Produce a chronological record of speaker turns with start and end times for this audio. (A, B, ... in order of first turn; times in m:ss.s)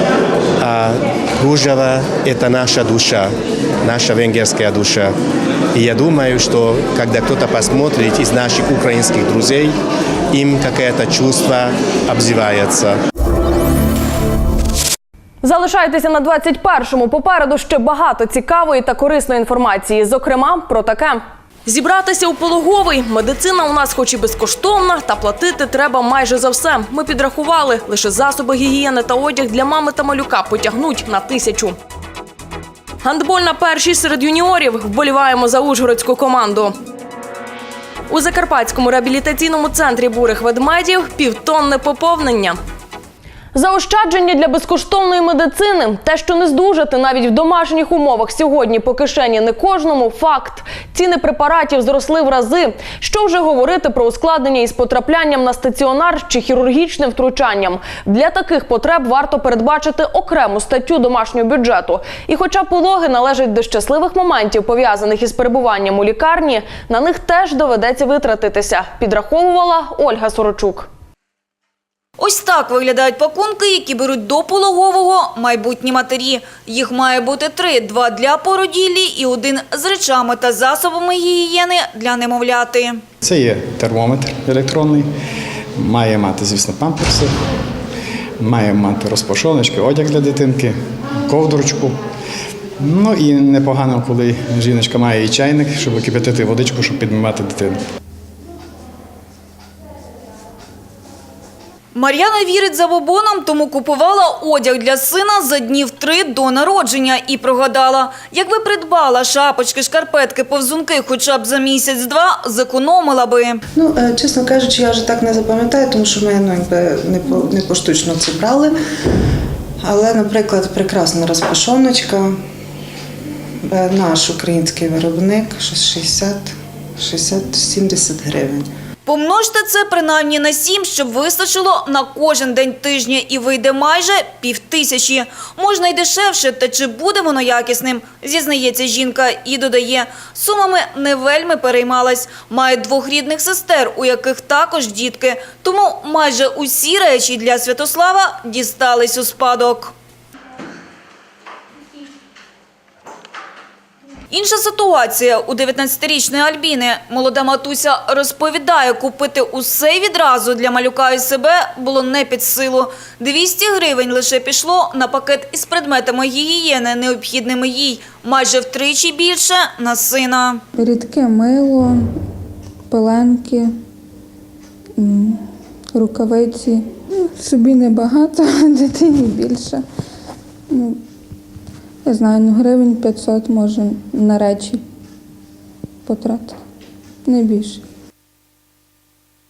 0:00.6-0:05.2 A
0:05.7-0:09.7 A
0:10.3-0:13.0 A
0:15.4-0:31.8 B
0:33.0-0:36.7 B
0:38.1-0:42.6 B
0:43.5-1:10.9 B
1:12.2-1:23.0 C
1:23.2-1:25.1 D
1:25.7-1:27.4 D
1:28.4-1:32.1 D
1:32.8-1:37.8 D
1:41.9-1:53.6 C
1:53.7-1:58.8 E
1:59.8-2:02.4 E
2:03.6-2:08.7 E
2:09.0-2:29.9 C
2:34.3-2:50.6 C
2:50.7-2:52.2 F
2:52.9-2:53.7 F
2:55.0-2:59.8 F
3:00.7-3:01.0 F
3:02.0-3:04.8 F
3:06.0-3:06.6 F
3:07.2-3:07.8 F